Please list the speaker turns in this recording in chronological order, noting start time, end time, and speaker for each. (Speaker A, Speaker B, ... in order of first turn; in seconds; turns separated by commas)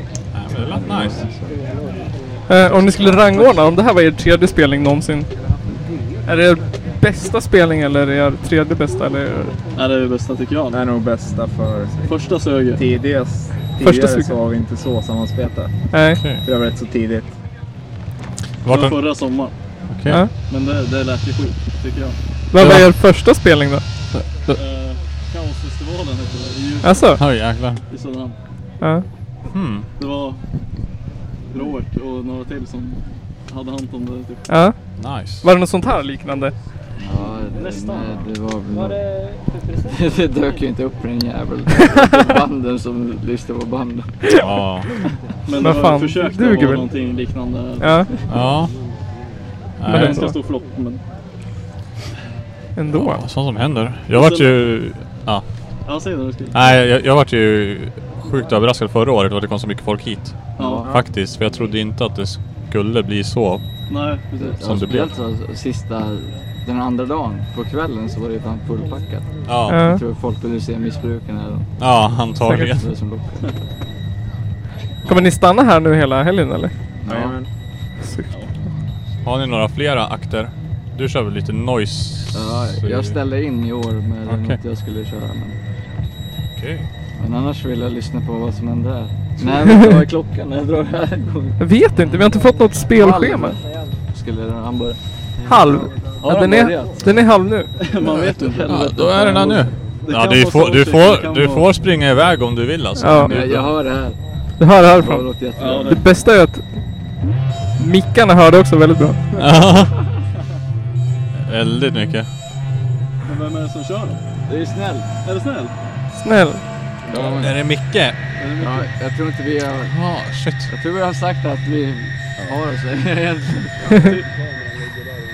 Speaker A: 0.3-1.3, Speaker B: 0.7-1.5, Speaker C: 2.5-5.3, Speaker C: 6.2-9.7, Speaker D: 9.7-10.8, Speaker E: 10.7-12.0, Speaker D: 12.0-12.8, Speaker E: 12.7-17.3, Speaker C: 13.8-14.3, Speaker C: 15.9-16.2, Speaker A: 16.1-16.4, Speaker A: 18.6-19.0, Speaker D: 18.7-19.5, Speaker A: 19.9-20.2, Speaker D: 20.4-22.2, Speaker C: 22.5-23.8, Speaker A: 22.6-22.9, Speaker D: 24.5-27.2, Speaker C: 26.8-27.2, Speaker A: 27.2-27.8, Speaker D: 27.9-28.4, Speaker C: 28.8-29.1, Speaker A: 29.5-29.9, Speaker D: 30.0-30.4, Speaker D: 31.5-34.5, Speaker C: 34.5-34.8, Speaker A: 35.0-35.5, Speaker C: 35.4-36.5, Speaker B: 37.0-39.1, Speaker D: 37.5-38.2, Speaker B: 39.9-44.3, Speaker C: 44.2-44.5, Speaker A: 44.3-44.9, Speaker D: 45.4-48.3, Speaker C: 45.6-46.9, Speaker C: 47.8-48.2, Speaker A: 48.3-48.7, Speaker A: 49.8-50.2, Speaker C: 49.9-50.3, Speaker D: 49.9-51.0, Speaker C: 52.8-53.2, Speaker A: 52.9-55.4, Speaker D: 54.1-54.6, Speaker D: 55.8-56.5, Speaker A: 56.5-63.6, Speaker D: 60.6-60.9, Speaker B: 60.6-61.0, Speaker D: 63.9-64.6, Speaker B: 64.4-71.7, Speaker A: 64.6-65.2, Speaker A: 69.4-69.8, Speaker C: 69.7-70.0, Speaker A: 71.8-72.8, Speaker C: 72.4-72.8, Speaker B: 72.6-73.6, Speaker C: 75.0-76.7, Speaker B: 77.0-77.4, Speaker E: 77.1-77.5, Speaker C: 78.0-78.3, Speaker A: 79.2-83.2, Speaker B: 82.3-85.6, Speaker A: 84.2-84.6, Speaker A: 86.5-86.9, Speaker B: 87.2-92.2, Speaker C: 89.6-90.0, Speaker C: 91.6-93.6, Speaker B: 92.9-95.0, Speaker A: 95.4-95.6, Speaker C: 95.5-97.8, Speaker B: 96.2-97.0, Speaker D: 97.8-101.7, Speaker A: 98.2-103.8, Speaker B: 98.7-99.5, Speaker C: 103.0-103.4, Speaker B: 103.2-104.2, Speaker C: 104.6-106.6, Speaker B: 104.8-106.0, Speaker D: 105.5-106.0, Speaker C: 107.8-109.3, Speaker A: 109.3-110.0, Speaker A: 111.5-112.3, Speaker D: 113.2-114.2, Speaker B: 114.5-115.1, Speaker D: 115.2-115.7, Speaker C: 116.1-116.6, Speaker B: 117.1-117.6, Speaker A: 117.1-118.2, Speaker D: 118.4-118.9, Speaker B: 118.6-119.9, Speaker A: 119.9-120.7, Speaker B: 120.7-124.1, Speaker D: 123.9-124.3